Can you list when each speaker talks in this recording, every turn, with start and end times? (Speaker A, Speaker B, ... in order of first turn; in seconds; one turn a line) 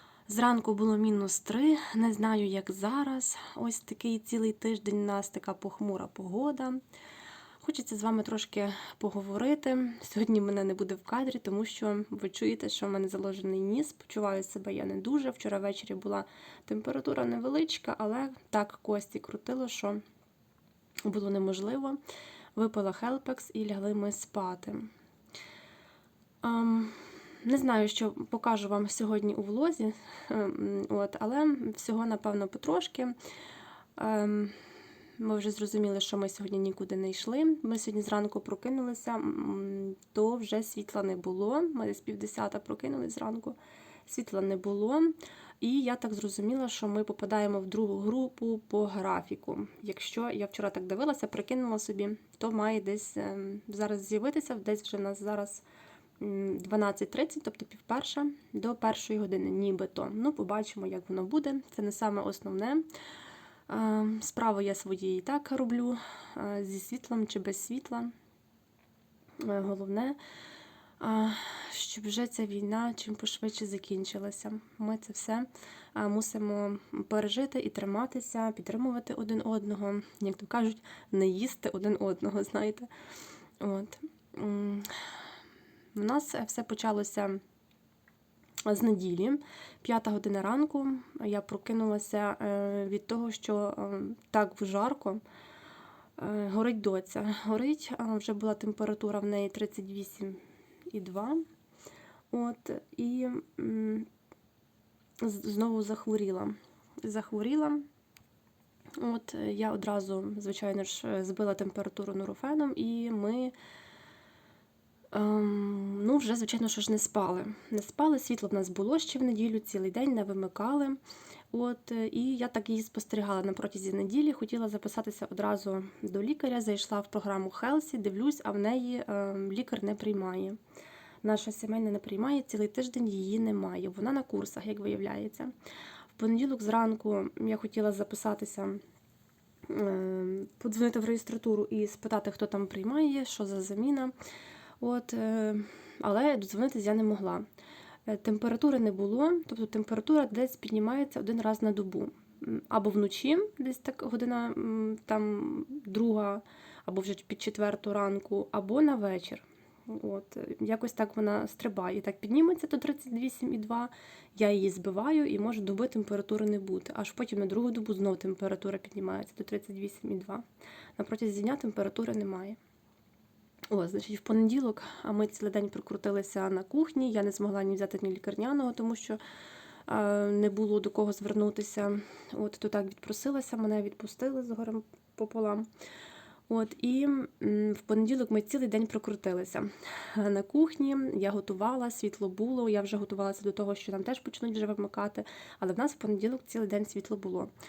Speaker A: 0.3-6.8
Speaker A: 7.6-20.0
Speaker A: 21.1-22.0
Speaker A: 22.6-24.9
Speaker A: 26.4-33.1
Speaker A: 34.0-34.5
Speaker A: 35.2-43.5
Speaker A: 44.1-55.6
Speaker A: 56.2-62.8
Speaker A: 63.7-68.1
Speaker A: 69.4-70.2
Speaker A: 71.0-82.9
Speaker A: 83.6-84.9
Speaker A: 85.9-87.4
Speaker A: 88.7-95.2
Speaker A: 96.2-101.4
Speaker A: 102.3-104.1
Speaker A: 105.2-107.8
Speaker A: 109.0-113.5
Speaker A: 115.1-121.0
Speaker A: 121.5-130.6
Speaker A: 131.2-135.5
Speaker A: 136.1-138.8
Speaker A: 139.7-144.1
Speaker A: 144.8-147.4
Speaker A: 148.1-170.4
Speaker A: 171.0-172.6
Speaker A: 173.7-179.2
Speaker A: 179.9-185.7
Speaker A: 186.5-197.5